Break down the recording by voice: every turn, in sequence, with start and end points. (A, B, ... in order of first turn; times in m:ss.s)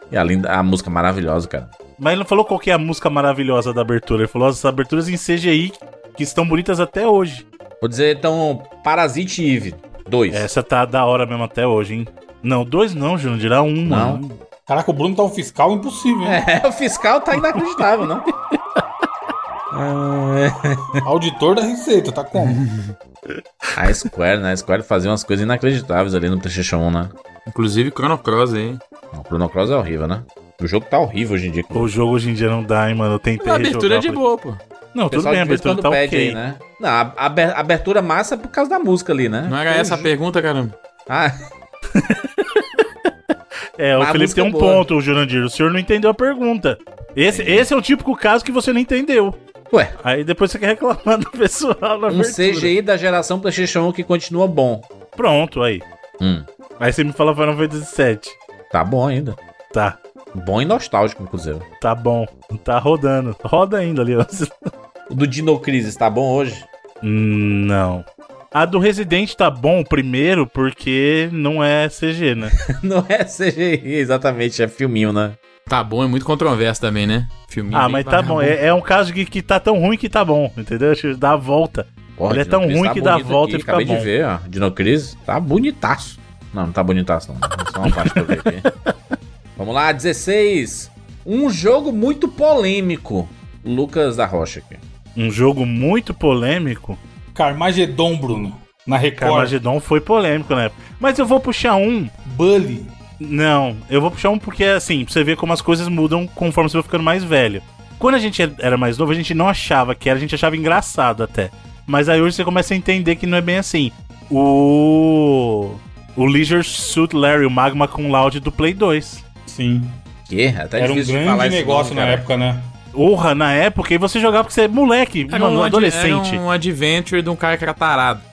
0:00.1-0:01.7 A
0:02.0-0:07.4 B
0:07.8-0:10.5 A
0:10.3-0:14.4 B
0:13.9-0:14.2 A
0:14.7-0:16.4 C
0:16.2-0:18.3 A
0:19.7-0:21.0 A
0:21.0-0:22.6 C
0:22.4-0:23.0 D
0:23.3-0:23.9 B
0:23.8-0:27.1 A
0:27.5-0:28.8 D
0:29.1-0:31.9 A
0:31.7-0:34.2 B
0:33.4-0:34.6 D
0:34.9-0:36.4 B
0:35.1-0:40.1 A
0:39.5-0:40.7 D
0:41.1-0:41.3 A
0:41.9-0:42.8 B
0:43.8-0:49.4 B
0:44.0-0:44.8 A
0:47.3-0:47.6 A
0:49.7-0:50.0 A
0:50.0-0:52.7 B
0:52.1-0:54.9 A
0:55.2-0:55.8 B
0:56.2-0:56.5 A
0:56.8-0:58.4 B
0:58.7-0:59.4 A
0:59.7-1:00.0 B
1:00.3-1:01.7 A
1:01.8-1:04.6 B
1:05.1-1:06.7 A
1:07.0-1:12.5 B
1:12.6-1:15.4 A
1:15.7-1:18.6 D
1:17.7-1:24.1 B
1:22.2-1:28.6 A
1:27.9-1:28.4 B
1:29.6-1:34.8 A
1:35.2-1:37.0 B
1:37.3-1:39.6 C
1:39.2-1:42.1 B
1:42.2-1:43.0 C
1:43.2-1:59.2 B
1:59.4-2:00.0 C
2:00.2-2:02.2 A
2:00.7-2:02.7 C
2:02.9-2:06.4 B
2:05.3-2:08.2 D